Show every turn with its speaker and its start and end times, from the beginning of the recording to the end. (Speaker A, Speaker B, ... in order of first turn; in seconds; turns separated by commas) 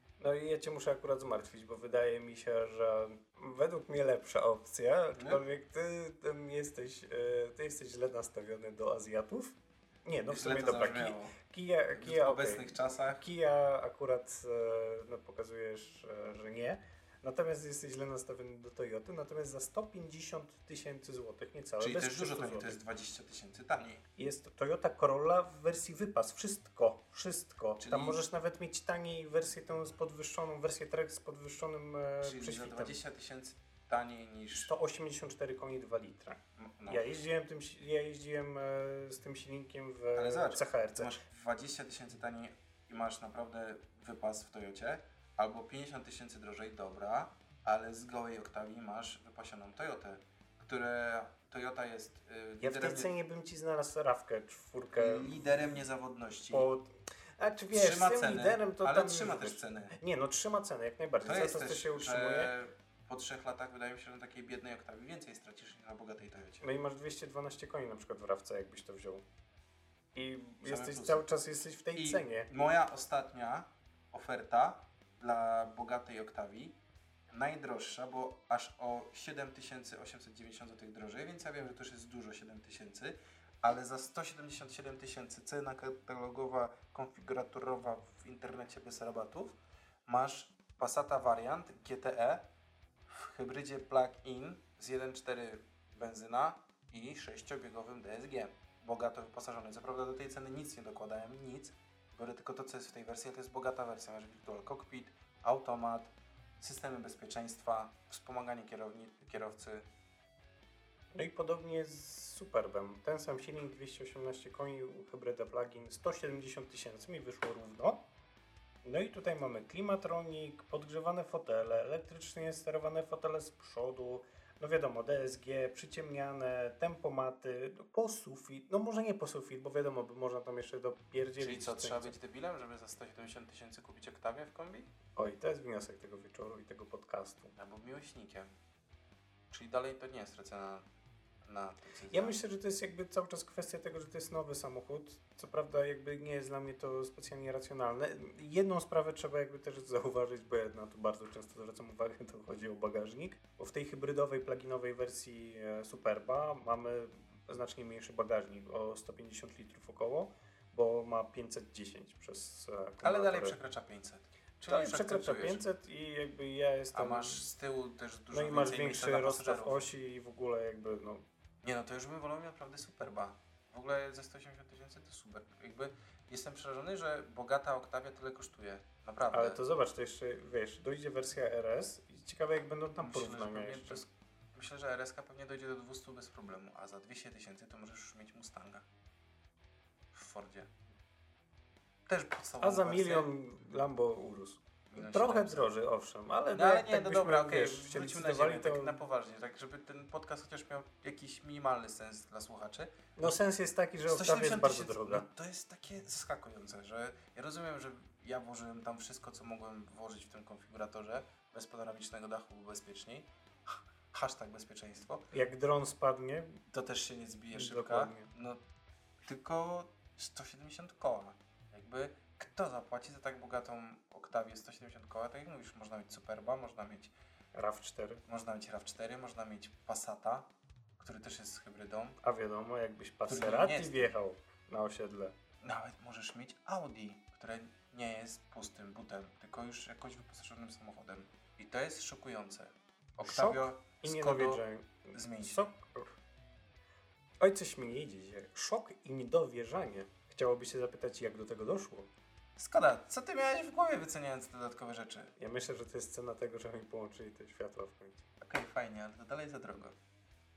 Speaker A: 0.2-22.8, Speaker B: 5.1-5.4, Speaker B: 10.3-11.4, Speaker B: 11.9-13.2, Speaker B: 21.8-24.0, Speaker A: 24.2-33.0, Speaker B: 27.8-28.2, Speaker B: 32.2-34.7, Speaker A: 34.7-41.2, Speaker B: 36.6-37.2, Speaker B: 40.1-53.1, Speaker A: 52.6-55.8, Speaker B: 54.9-56.7, Speaker A: 56.5-62.5, Speaker B: 57.7-59.9, Speaker B: 61.2-66.7, Speaker A: 66.6-69.2, Speaker A: 70.1-72.5, Speaker B: 70.6-71.3, Speaker B: 71.9-76.8, Speaker B: 77.3-92.5, Speaker B: 93.1-109.8, Speaker A: 111.1-118.0, Speaker A: 118.8-132.2, Speaker B: 131.4-134.9, Speaker A: 135.1-137.5, Speaker B: 137.5-138.5, Speaker B: 139.5-140.8, Speaker B: 141.4-142.4, Speaker A: 142.1-163.6, Speaker B: 163.0-165.6, Speaker A: 164.7-167.5, Speaker B: 166.9-169.9, Speaker A: 168.3-171.2, Speaker B: 171.6-179.6, Speaker A: 179.3-184.0, Speaker B: 183.0-188.8, Speaker B: 190.1-190.7, Speaker B: 192.1-193.3, Speaker A: 192.6-199.0, Speaker B: 194.9-195.6, Speaker B: 196.5-203.3, Speaker A: 203.2-205.3, Speaker B: 204.1-215.3, Speaker A: 215.3-216.6, Speaker B: 216.7-218.6, Speaker A: 217.5-218.3, Speaker B: 219.2-227.1, Speaker A: 227.5-228.2, Speaker B: 228.2-232.2, Speaker A: 232.2-235.3, Speaker B: 233.2-234.2, Speaker B: 235.6-244.6, Speaker A: 243.2-246.1, Speaker B: 245.1-245.7, Speaker A: 247.4-252.1, Speaker B: 252.6-255.3, Speaker A: 255.4-258.2, Speaker B: 258.4-259.9